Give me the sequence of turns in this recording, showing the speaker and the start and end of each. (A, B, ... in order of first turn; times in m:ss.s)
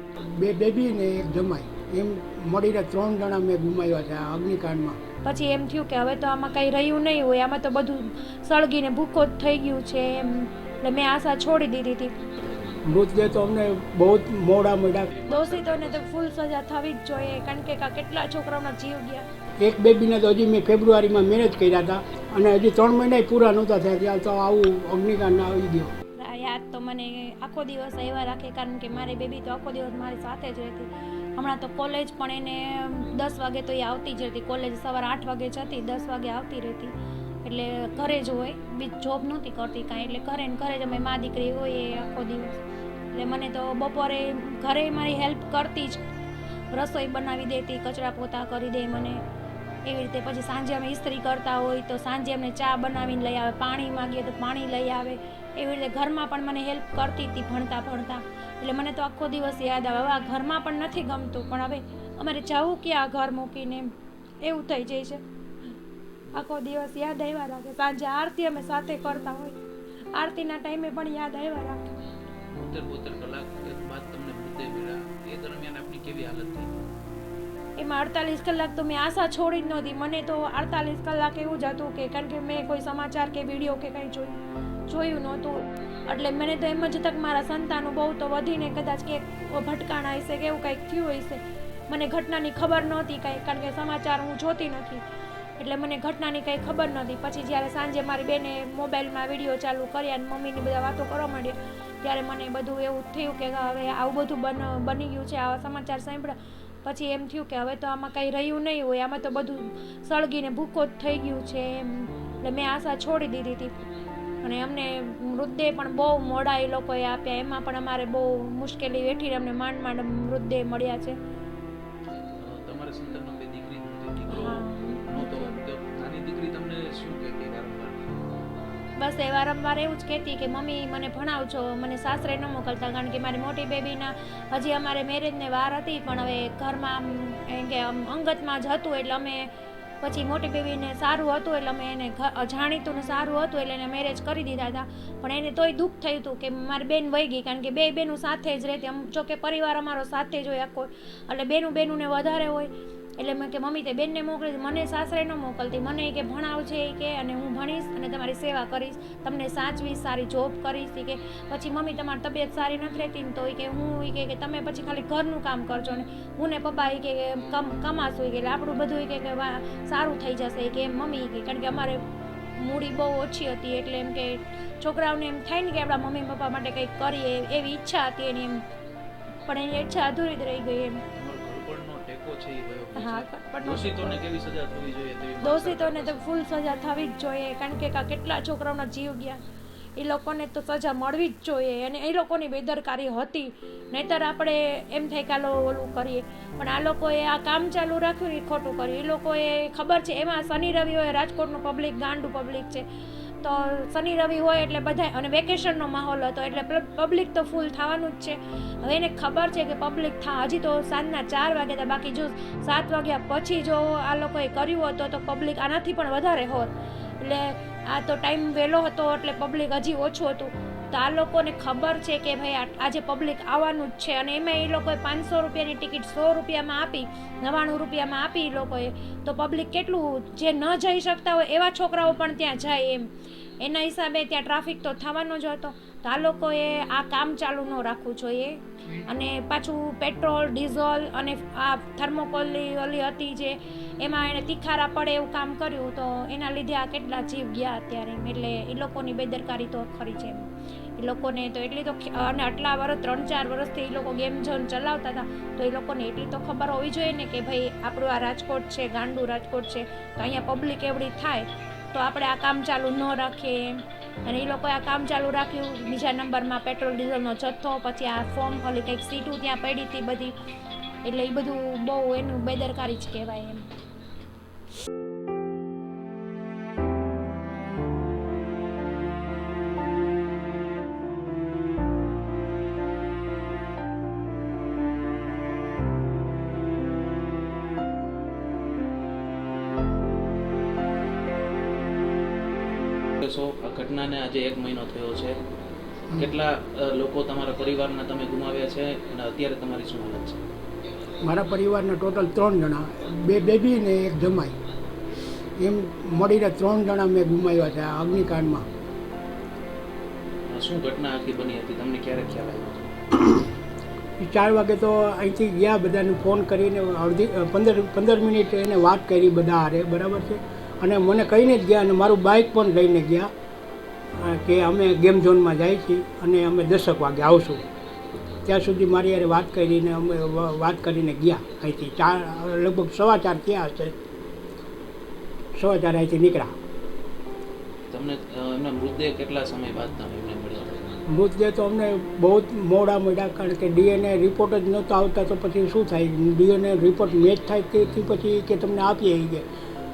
0:00.2-0:05.0 A
0:05.2-0:12.1 B
0:12.4-0:12.8 C
0:12.8-0:15.1 A
0:15.1-0:16.0 C
0:15.2-0:19.2 B
0:19.6-0:25.9 A
0:26.2-0:42.6 B
0:43.1-0:46.0 B
0:46.7-0:49.2 B
0:49.8-1:03.9 B
1:04.4-1:05.2 B
1:06.4-1:09.6 B
1:10.1-1:11.9 B
1:12.5-1:16.8 C
1:17.8-1:24.4 B
1:24.9-1:35.0 B
1:35.6-1:53.7 B
1:54.4-2:01.2 B
2:02.4-2:08.0 C
2:04.3-2:05.6 B
2:09.0-2:19.5 B
2:20.0-2:52.0 B
2:52.6-2:58.6 B
2:59.5-3:01.0 B
3:01.1-3:06.2 C
3:03.0-3:04.2 B
3:05.4-3:09.4 B
3:10.0-3:22.8 B
3:23.4-3:53.1 B
3:53.6-4:30.3 B
4:31.0-4:33.6 B
4:53.2-4:55.4 C
4:56.1-5:00.4 C
5:01.2-5:04.6 A
5:05.6-5:08.6 A
5:10.5-5:12.9 C
5:14.2-5:23.3 A
5:24.1-5:27.6 A
5:28.4-5:34.0 A
5:35.6-5:36.5 A
5:37.9-5:41.0 C
5:41.1-5:49.4 A